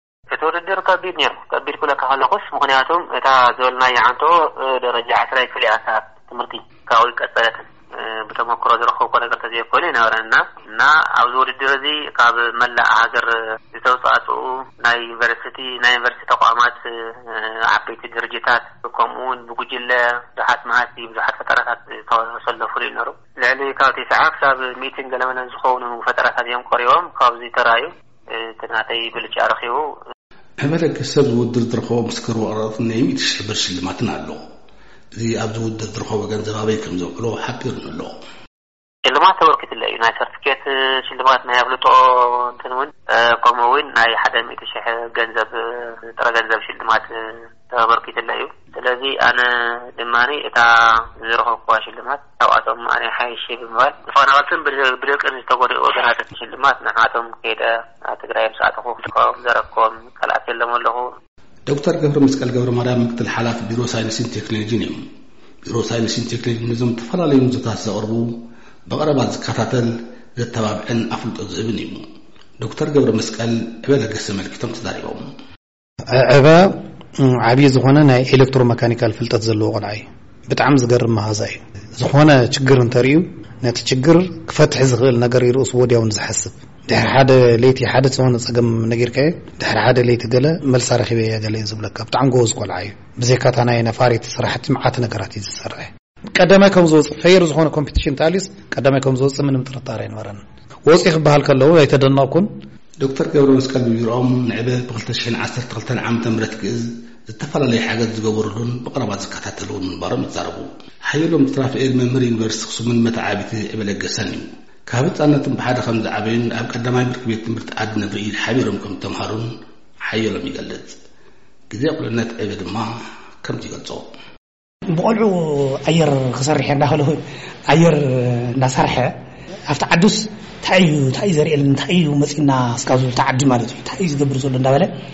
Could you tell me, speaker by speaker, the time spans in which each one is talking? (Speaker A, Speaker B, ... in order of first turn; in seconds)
Speaker A: 0.3-29.9, 39.0-61.1
Speaker B: 30.6-34.4, 35.1-38.2, 61.7-65.0, 65.7-72.1, 72.6-75.3, 103.0-121.0, 121.7-124.2
Speaker C: 76.1-102.5
Speaker D: 124.9-129.1, 129.7-134.9